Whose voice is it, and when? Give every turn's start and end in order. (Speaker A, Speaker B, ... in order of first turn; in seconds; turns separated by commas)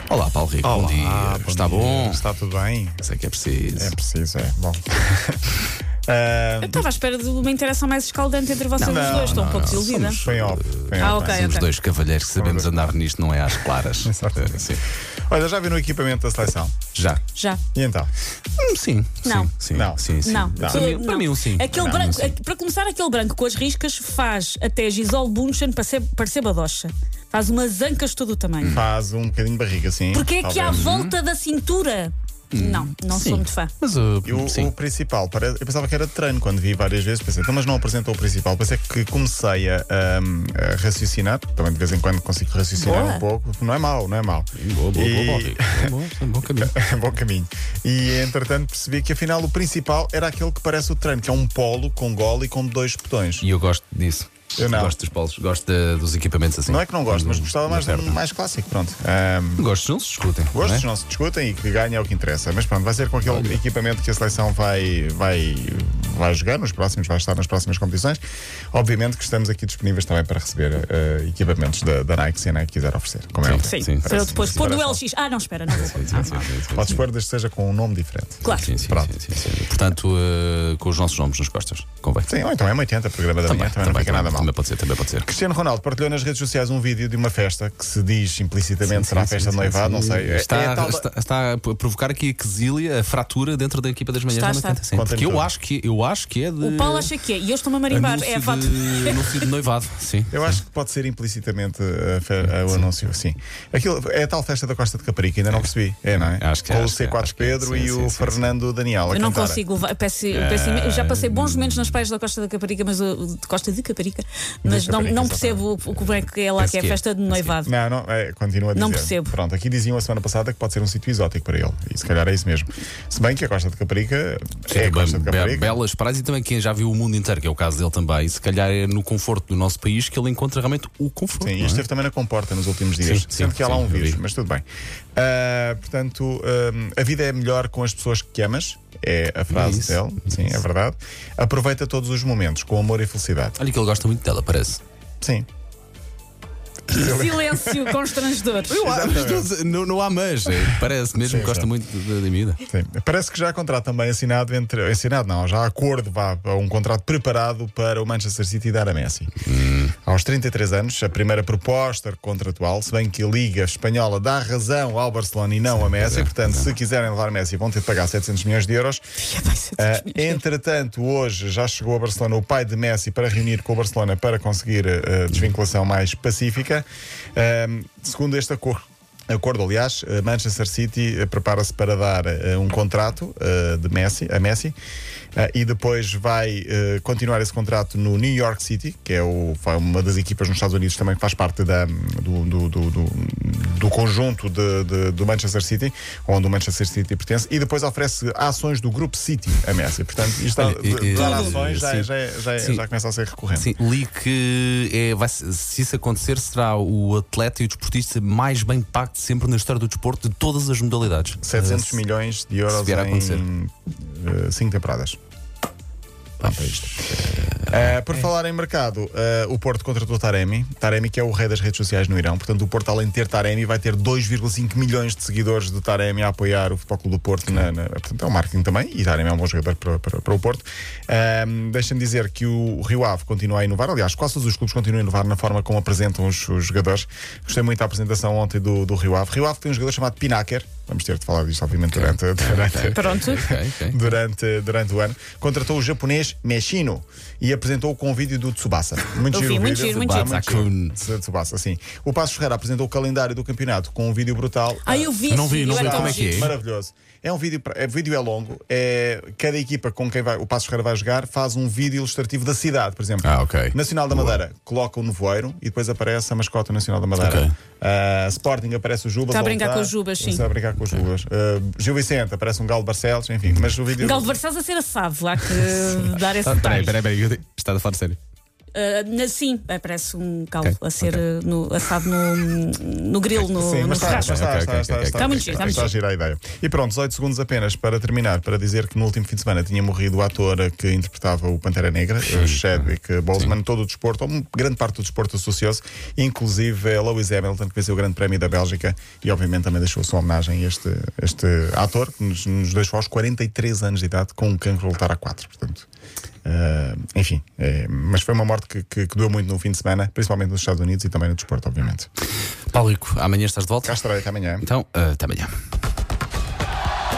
Speaker A: 0.1-2.2, Speaker B: 0.6-3.0, Speaker A: 3.0-4.0, Speaker B: 3.8-5.4, Speaker B: 6.1-6.9, Speaker C: 6.6-10.2, Speaker A: 8.8-14.8, Speaker B: 8.8-11.4, Speaker C: 11.0-11.7, Speaker B: 12.4-12.9, Speaker B: 14.0-16.8, Speaker A: 16.9-17.2, Speaker C: 17.4-17.6, Speaker B: 17.8-18.1, Speaker A: 18.6-22.4, Speaker C: 19.2-19.5, Speaker B: 19.7-20.0, Speaker C: 20.2-28.8, Speaker B: 20.6-20.9, Speaker B: 21.7-22.2, Speaker B: 28.6-30.9, Speaker C: 30.1-33.7, Speaker A: 30.7-31.2, Speaker A: 32.5-34.7, Speaker B: 34.2-45.9, Speaker C: 42.8-43.2, Speaker A: 44.6-46.7, Speaker B: 46.5-53.5, Speaker A: 53.4-58.2, Speaker B: 54.6-55.0, Speaker B: 56.7-59.7, Speaker A: 59.6-60.9, Speaker B: 60.5-68.2, Speaker A: 63.2-63.6, Speaker B: 68.7-75.0, Speaker A: 73.4-74.7, Speaker C: 73.5-76.4, Speaker B: 75.7-79.2, Speaker A: 75.7-77.1, Speaker C: 78.4-78.7, Speaker A: 78.5-82.3, Speaker B: 82.2-84.5, Speaker A: 83.4-85.3, Speaker B: 85.2-91.1, Speaker A: 88.8-97.1, Speaker C: 94.3-94.8, Speaker B: 94.9-95.5, Speaker C: 96.6-99.5, Speaker A: 97.9-100.6, Speaker B: 100.3-109.6, Speaker A: 102.5-102.9, Speaker A: 105.5-108.5, Speaker C: 109.1-117.7, Speaker A: 110.3-112.0, Speaker B: 114.6-116.0, Speaker A: 116.6-117.5, Speaker B: 117.6-125.8, Speaker C: 118.7-119.3, Speaker A: 124.7-131.8, Speaker B: 131.4-143.6, Speaker A: 133.0-134.2, Speaker A: 139.5-140.6, Speaker A: 143.6-144.8, Speaker B: 145.2-145.5, Speaker C: 146.9-148.8, Speaker B: 146.9-147.6, Speaker A: 148.7-152.6, Speaker B: 148.8-149.5, Speaker B: 151.2-151.7, Speaker B: 152.7-159.3, Speaker A: 159.4-159.9, Speaker B: 160.0-169.1, Speaker A: 165.7-166.7, Speaker C: 169.2-170.4, Speaker B: 169.8-184.8, Speaker B: 185.4-203.7, Speaker A: 200.5-202.8, Speaker C: 201.1-201.7, Speaker A: 203.5-212.0, Speaker B: 211.4-215.2, Speaker A: 212.7-213.4, Speaker A: 216.4-218.3, Speaker B: 216.4-274.4, Speaker A: 241.9-244.2, Speaker C: 242.9-243.4, Speaker C: 249.3-250.4, Speaker A: 249.9-251.0, Speaker C: 254.8-256.3, Speaker A: 255.3-256.6, Speaker A: 263.2-264.4, Speaker A: 267.2-267.5, Speaker C: 269.3-270.5, Speaker C: 274.0-277.0, Speaker A: 276.4-278.2, Speaker C: 278.7-284.4, Speaker A: 280.6-281.2, Speaker B: 283.5-305.9, Speaker A: 284.0-285.9, Speaker C: 285.1-285.9, Speaker A: 292.2-293.5, Speaker B: 306.4-312.1, Speaker A: 312.7-314.1, Speaker B: 313.8-314.7, Speaker A: 314.6-315.5